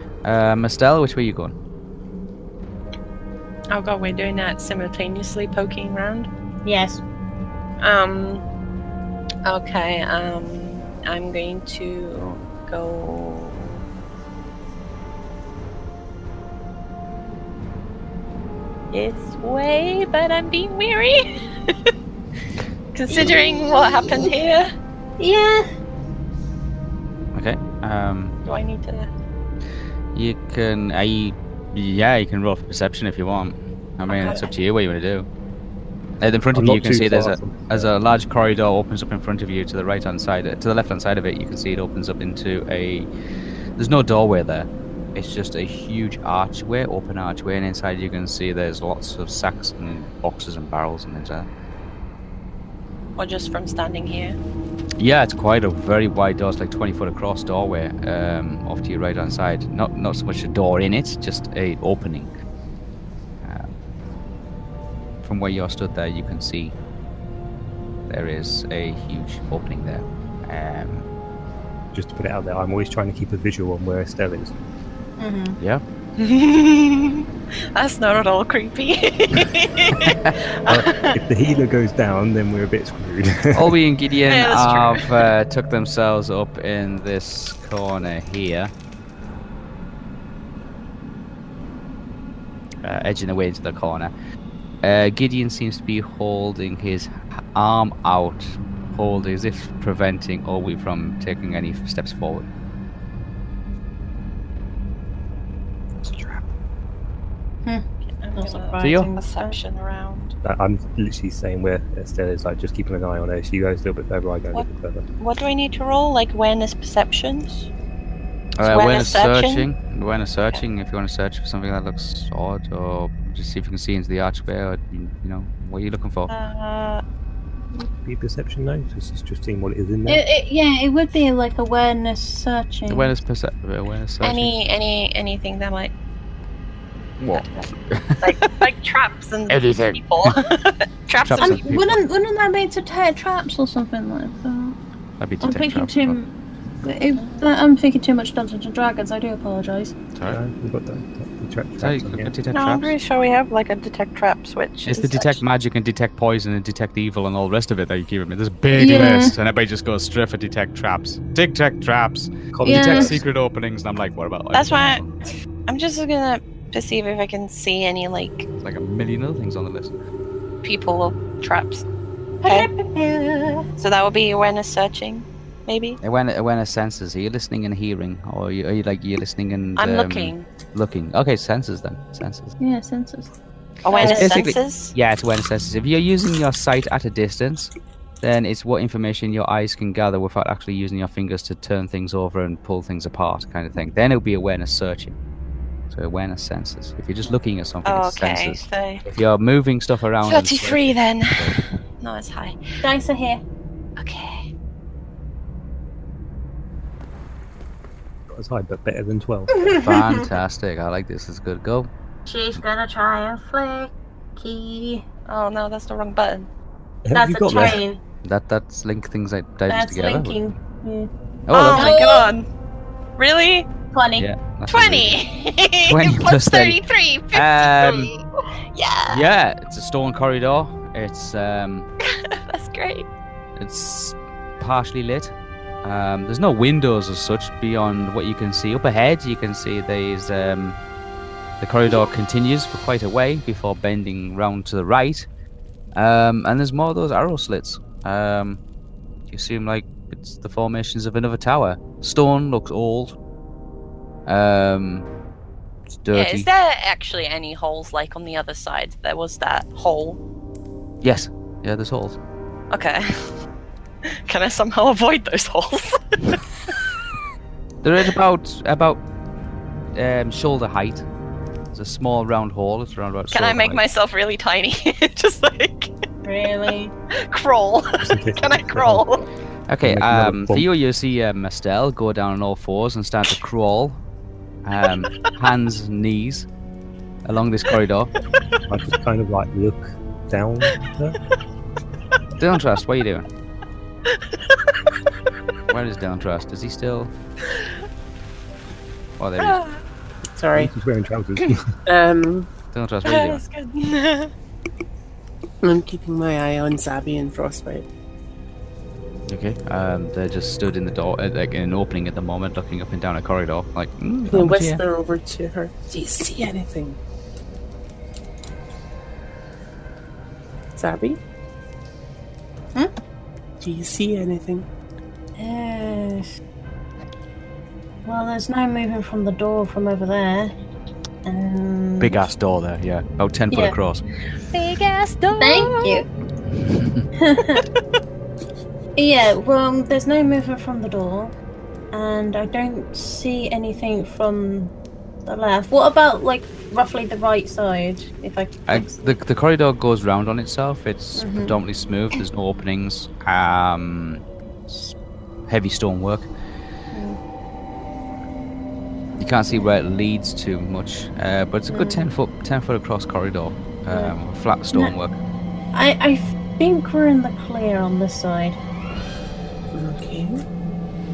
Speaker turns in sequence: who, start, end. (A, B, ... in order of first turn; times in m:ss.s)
0:00.2-0:01.5 A
0:03.7-0:06.3 B
0:06.6-0:07.0 C
0:07.8-0:08.4 B
0:09.4-0:13.8 B
0:18.9-0:21.9 B
0:22.9-0:24.7 B
0:23.1-0:24.2 C
0:25.2-0:25.7 C
0:27.3-0:28.4 A
0:28.4-0:29.1 B
0:30.1-0:35.3 A
0:34.2-0:34.4 B
0:36.2-0:43.1 A
0:36.5-0:37.9 D
0:43.8-0:51.5 A
0:53.2-0:54.4 B
0:55.0-1:02.3 A
1:03.4-1:03.7 A
1:05.2-1:06.8 A
1:08.1-1:11.0 A
1:11.9-1:14.5 D
1:15.2-1:15.6 C
1:16.2-1:17.2 B
1:17.8-1:21.2 B
1:20.0-1:20.3 A
1:20.7-1:23.8 D
1:23.5-1:28.7 A
1:24.3-1:25.3 B
1:32.8-1:34.1 A
1:34.8-1:42.4 A
1:46.0-1:46.4 D
1:47.6-1:49.6 C
1:48.0-1:50.4 B
1:48.8-1:49.1 A
1:50.4-1:55.0 D
1:55.2-1:57.7 B
1:58.6-2:06.3 A
1:58.6-1:59.7 B
2:06.3-2:07.0 B
2:08.0-2:10.2 D
2:10.0-2:13.2 C
2:12.9-2:14.5 A
2:14.2-2:15.9 B
2:17.2-2:18.5 A
2:17.3-2:17.7 B
2:18.2-2:21.7 B
2:19.5-2:20.4 A
2:21.1-2:22.0 A
2:21.4-2:24.8 C
2:25.2-2:26.2 A
2:25.4-2:26.3 C
2:26.8-2:29.9 C
2:27.2-2:27.4 B
2:30.1-2:30.4 A
2:30.2-2:32.3 D
2:31.8-2:33.0 A
2:32.5-2:35.4 B
2:34.8-2:45.1 A
2:38.7-2:39.3 C
2:42.5-2:43.2 D
2:42.6-2:43.2 C
2:44.5-2:45.0 B
2:45.7-2:48.5 B
2:48.6-2:49.9 A
2:50.6-2:51.8 B
2:52.4-2:52.7 B
2:52.4-2:53.6 C
2:53.8-2:56.0 B
2:56.0-3:02.5 A
2:59.8-3:00.5 B
3:02.6-3:03.3 C
3:03.8-3:04.9 B
3:03.8-3:04.5 C
3:04.0-3:15.2 A
3:15.9-3:21.6 A
3:17.8-3:19.1 B
3:20.2-3:22.6 B
3:22.8-3:23.4 C
3:24.0-3:24.4 B
3:28.3-3:29.7 D
3:29.5-3:30.2 C
3:29.8-3:31.9 A
3:32.3-3:35.0 C
3:35.3-3:36.5 B
3:37.0-3:37.8 D
3:37.1-3:38.0 C
3:38.2-3:40.4 A
3:39.7-3:41.1 C
3:41.5-3:41.9 A
3:41.5-3:42.5 B
3:41.7-3:42.4 C
3:43.2-3:43.7 B
3:43.9-3:44.3 C
3:44.2-3:45.2 A
3:44.7-3:48.2 B
3:45.8-3:46.8 A
3:47.3-3:48.1 A
3:48.7-3:49.3 B
3:49.1-3:51.9 A
3:52.0-3:53.1 B
3:53.6-4:00.8 A
4:01.6-4:05.3 A
4:05.9-4:08.6 A
4:09.3-4:13.1 A
4:14.2-4:15.1 A
4:15.9-4:16.5 A
4:16.1-4:20.2 B
4:21.0-4:22.2 A
4:22.7-4:23.3 B
4:24.0-4:26.7 B
4:27.8-4:29.0 A
4:29.9-4:31.0 A
4:31.7-4:33.8 A
4:33.3-4:35.9 B
4:36.2-4:36.9 C
4:37.2-4:39.2 B
4:38.0-4:39.0 D
4:39.7-4:44.0 A
4:39.8-4:40.7 D
4:44.6-4:46.5 A
4:47.2-4:48.1 A
4:48.7-4:51.2 D
4:52.4-4:53.3 A
4:54.1-4:54.6 B
4:55.7-4:57.1 A
4:57.4-4:57.8 B
4:59.2-4:59.6 A
4:59.4-4:59.8 B
5:00.4-5:00.7 E
5:00.5-5:01.8 D
5:01.8-5:02.5 E
5:02.7-5:03.4 A
5:03.0-5:04.3 B
5:05.6-5:07.8 E
5:09.3-5:14.8 A
5:14.3-5:17.0 E
5:20.8-5:21.2 E
5:23.6-5:24.6 E
5:25.4-5:26.3 C
5:28.0-5:30.5 C
5:31.2-5:32.2 C
5:32.0-5:34.0 A
5:34.5-5:36.1 B
5:35.3-5:36.1 C
5:36.6-5:37.1 A
5:37.2-5:37.6 C
5:39.0-5:41.3 C
5:41.9-5:44.7 C
5:45.2-5:49.1 C
5:48.7-5:54.9 A
5:51.1-5:51.6 C
5:55.5-5:56.3 A
5:56.9-5:57.2 C
5:59.2-6:05.2 A
6:01.7-6:02.1 C
6:05.7-6:08.6 C
6:09.7-6:10.4 E